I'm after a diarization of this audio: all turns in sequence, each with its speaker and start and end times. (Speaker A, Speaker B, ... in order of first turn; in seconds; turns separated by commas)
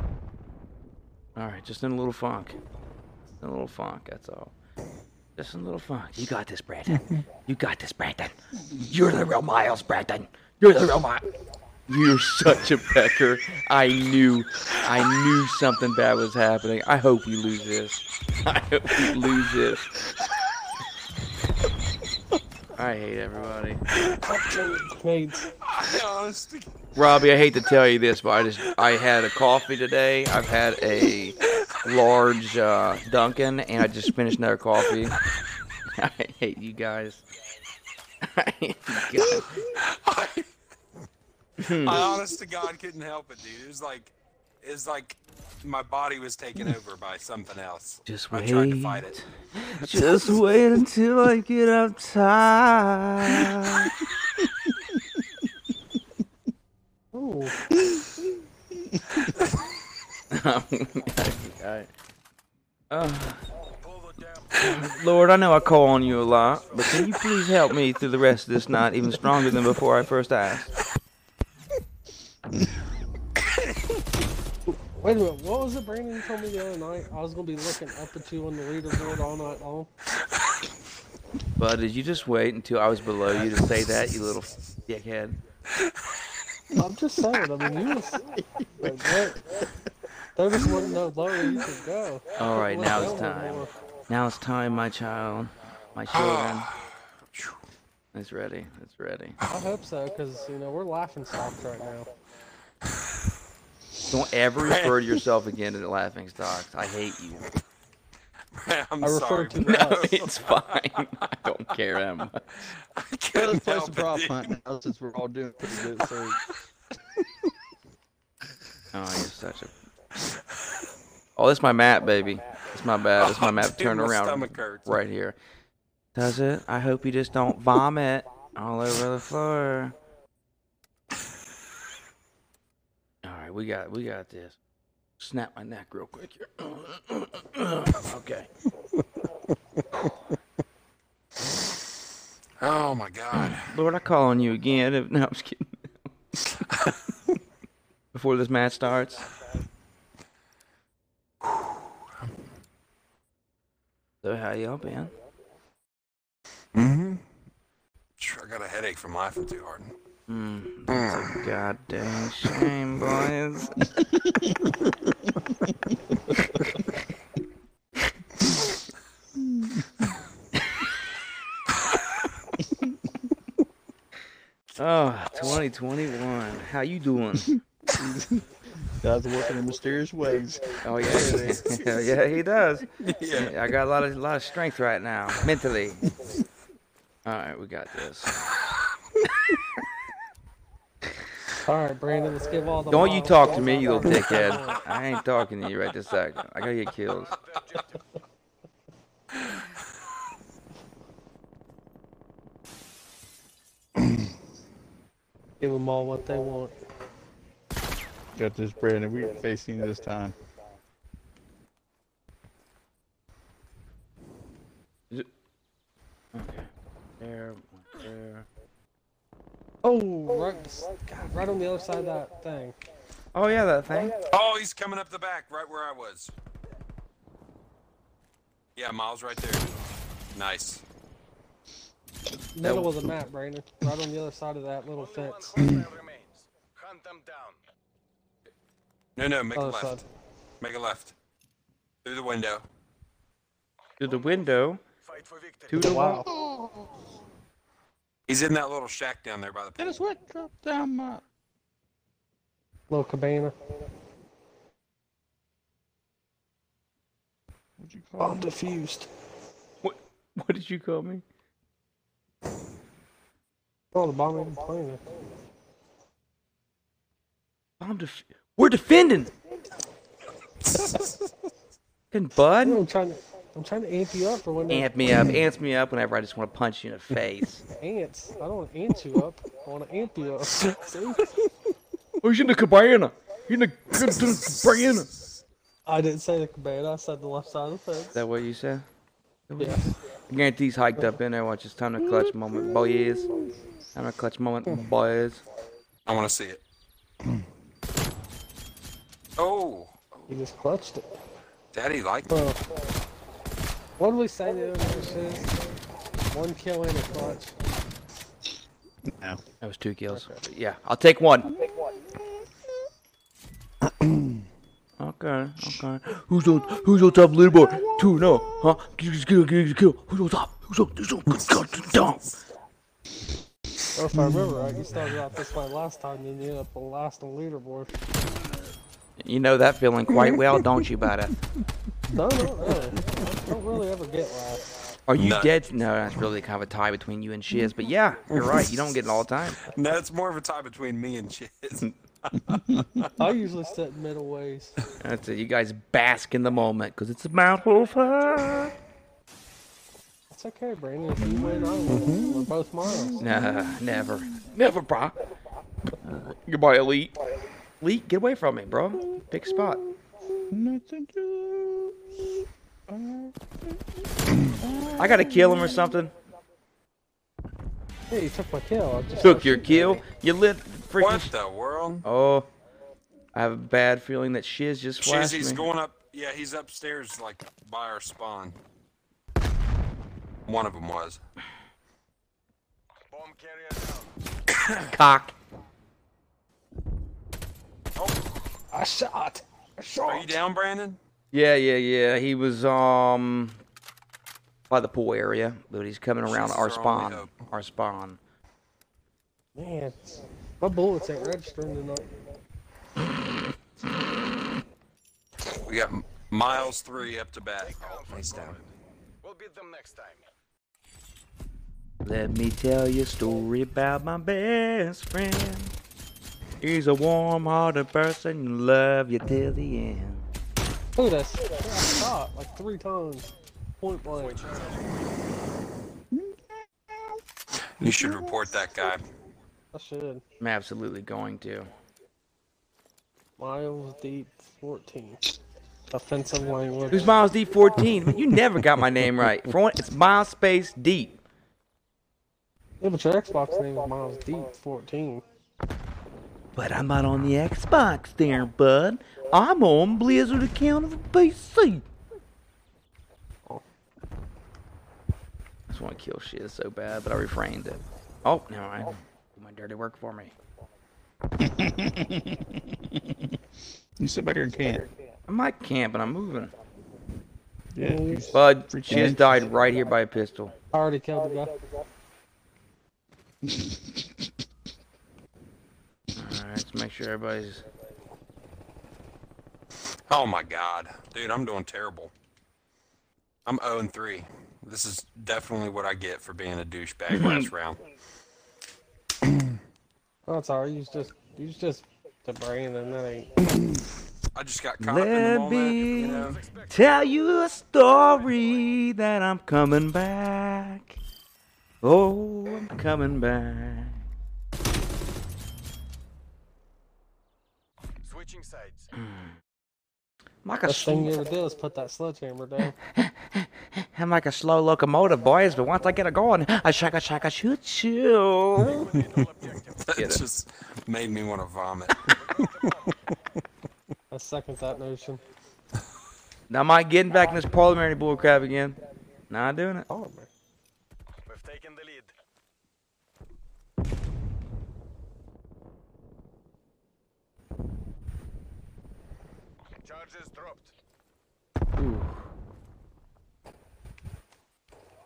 Speaker A: 1.4-2.6, Speaker A: 3.4-4.5, Speaker A: 5.4-8.3, Speaker A: 8.9-11.3, Speaker A: 11.9-19.9, Speaker A: 22.8-23.8, Speaker B: 24.1-25.5, Speaker C: 25.6-26.7, Speaker A: 26.9-35.2, Speaker A: 35.9-37.2, Speaker A: 38.2-39.5, Speaker C: 39.7-40.5, Speaker A: 41.6-42.1, Speaker C: 41.6-49.2, Speaker A: 48.1-53.9, Speaker B: 57.1-57.6, Speaker A: 60.3-61.9, Speaker A: 62.9-63.4, Speaker D: 63.8-64.8, Speaker A: 64.6-70.7, Speaker D: 66.5-67.1, Speaker B: 74.7-79.9, Speaker A: 81.6-85.4, Speaker B: 86.8-88.3, Speaker E: 88.6-88.9, Speaker B: 88.8-89.4, Speaker B: 90.4-93.7, Speaker A: 92.4-96.7, Speaker C: 96.1-96.8, Speaker C: 97.3-97.6, Speaker A: 98.1-99.4, Speaker B: 99.5-102.1, Speaker A: 104.1-107.5, Speaker C: 104.6-105.1, Speaker C: 108.5-110.7, Speaker B: 109.0-110.1, Speaker A: 109.8-112.6, Speaker C: 112.9-114.5, Speaker E: 113.4-116.4, Speaker A: 118.9-119.7, Speaker A: 121.4-125.4, Speaker C: 123.2-125.0, Speaker A: 126.2-130.0, Speaker A: 133.2-134.6, Speaker A: 135.2-138.5, Speaker C: 142.6-143.7, Speaker A: 143.3-146.1, Speaker A: 148.1-149.3, Speaker A: 154.2-155.1, Speaker C: 156.7-157.2, Speaker C: 158.2-159.9, Speaker A: 160.3-163.8, Speaker C: 160.9-161.3, Speaker E: 169.4-170.1, Speaker A: 174.8-177.6, Speaker E: 178.0-182.0, Speaker A: 180.8-186.1, Speaker C: 183.0-183.5, Speaker A: 187.3-188.3, Speaker B: 191.7-194.8, Speaker A: 192.9-197.3, Speaker D: 197.1-198.0, Speaker B: 205.6-206.7, Speaker E: 208.3-210.3, Speaker A: 216.3-216.7, Speaker A: 217.2-218.5, Speaker B: 219.8-222.8, Speaker A: 223.3-224.2, Speaker C: 224.3-226.3, Speaker C: 228.8-229.7, Speaker C: 230.3-230.8, Speaker B: 232.6-235.6, Speaker A: 232.6-232.9, Speaker D: 234.9-237.6, Speaker C: 239.2-240.0, Speaker B: 239.6-240.0, Speaker C: 240.6-241.1, Speaker C: 242.0-242.6, Speaker A: 244.0-244.8, Speaker D: 244.0-244.5, Speaker D: 245.0-245.9, Speaker A: 245.7-246.2, Speaker B: 245.8-246.3, Speaker E: 246.3-246.9, Speaker C: 248.3-250.0, Speaker E: 249.8-251.2, Speaker B: 252.9-253.5, Speaker E: 257.8-258.5, Speaker B: 258.2-259.1, Speaker A: 259.8-261.2, Speaker B: 263.9-265.0, Speaker A: 267.8-269.3, Speaker C: 270.7-271.1, Speaker A: 272.1-272.9, Speaker B: 272.6-274.9, Speaker A: 274.7-277.6, Speaker B: 277.8-281.4, Speaker A: 282.2-285.1, Speaker B: 285.9-288.2, Speaker A: 288.1-288.9, Speaker A: 289.5-293.4, Speaker B: 289.6-289.9, Speaker A: 293.9-295.4, Speaker C: 296.1-296.6, Speaker C: 299.4-300.0, Speaker B: 300.3-301.1, Speaker C: 301.7-302.4, Speaker B: 302.3-302.6, Speaker B: 304.0-305.5, Speaker B: 306.3-307.5, Speaker E: 309.1-309.4, Speaker A: 309.6-311.5, Speaker A: 315.0-322.4, Speaker B: 324.0-327.9, Speaker E: 324.2-324.6, Speaker A: 329.2-331.4, Speaker B: 332.1-334.7, Speaker A: 335.1-339.6, Speaker C: 335.2-335.5, Speaker C: 338.3-338.6, Speaker C: 339.6-343.1, Speaker E: 342.5-343.0, Speaker B: 343.2-344.8, Speaker A: 345.0-348.7, Speaker D: 347.5-348.4, Speaker B: 350.3-353.2, Speaker E: 351.3-353.6, Speaker C: 351.9-352.2, Speaker A: 353.2-355.2, Speaker A: 356.1-357.2, Speaker A: 357.8-359.9, Speaker E: 360.5-362.0, Speaker E: 362.9-363.8, Speaker E: 364.6-365.9, Speaker A: 365.0-366.1, Speaker B: 368.1-370.0, Speaker A: 369.2-371.3, Speaker C: 371.0-372.1, Speaker A: 372.0-372.5, Speaker A: 373.3-375.7, Speaker C: 375.0-378.6, Speaker C: 380.5-381.2, Speaker D: 383.1-384.1, Speaker C: 384.5-384.9, Speaker A: 384.9-385.4, Speaker C: 388.0-388.2, Speaker B: 388.7-390.4, Speaker C: 390.1-391.0, Speaker A: 391.3-393.6, Speaker A: 394.7-398.2, Speaker C: 396.2-397.3, Speaker B: 399.6-400.0, Speaker B: 400.6-402.1, Speaker C: 405.7-408.6, Speaker D: 407.6-410.2, Speaker A: 412.0-415.7, Speaker A: 416.6-420.2, Speaker B: 421.0-424.5, Speaker D: 424.1-425.2, Speaker E: 426.1-427.2, Speaker C: 427.8-429.0, Speaker B: 429.7-430.2, Speaker A: 430.4-431.7, Speaker B: 433.4-435.3, Speaker B: 435.9-437.1, Speaker A: 436.9-441.2, Speaker B: 442.8-445.2, Speaker A: 446.6-451.9, Speaker A: 455.7-460.3, Speaker E: 461.4-463.3, Speaker E: 464.0-464.9, Speaker A: 465.3-466.5, Speaker E: 467.8-469.6, Speaker B: 467.8-468.2, Speaker A: 468.3-470.5, Speaker B: 470.7-471.5, Speaker E: 473.5-473.7, Speaker A: 476.1-477.6, Speaker C: 480.1-482.1, Speaker C: 483.5-487.8, Speaker A: 487.1-487.5, Speaker B: 490.3-493.3, Speaker C: 494.4-496.4, Speaker A: 494.8-501.0, Speaker D: 495.9-497.2, Speaker D: 497.9-498.7, Speaker A: 501.8-504.0, Speaker D: 508.0-508.9, Speaker A: 509.0-509.4, Speaker A: 510.4-511.2, Speaker B: 510.7-512.8, Speaker A: 512.9-518.9, Speaker D: 518.5-519.8, Speaker C: 519.8-522.9, Speaker A: 520.0-520.2, Speaker D: 522.1-523.0, Speaker B: 524.1-525.2, Speaker A: 526.5-528.8, Speaker A: 529.3-529.9, Speaker B: 529.9-530.3, Speaker D: 531.3-532.1, Speaker D: 539.8-540.7, Speaker A: 541.8-542.2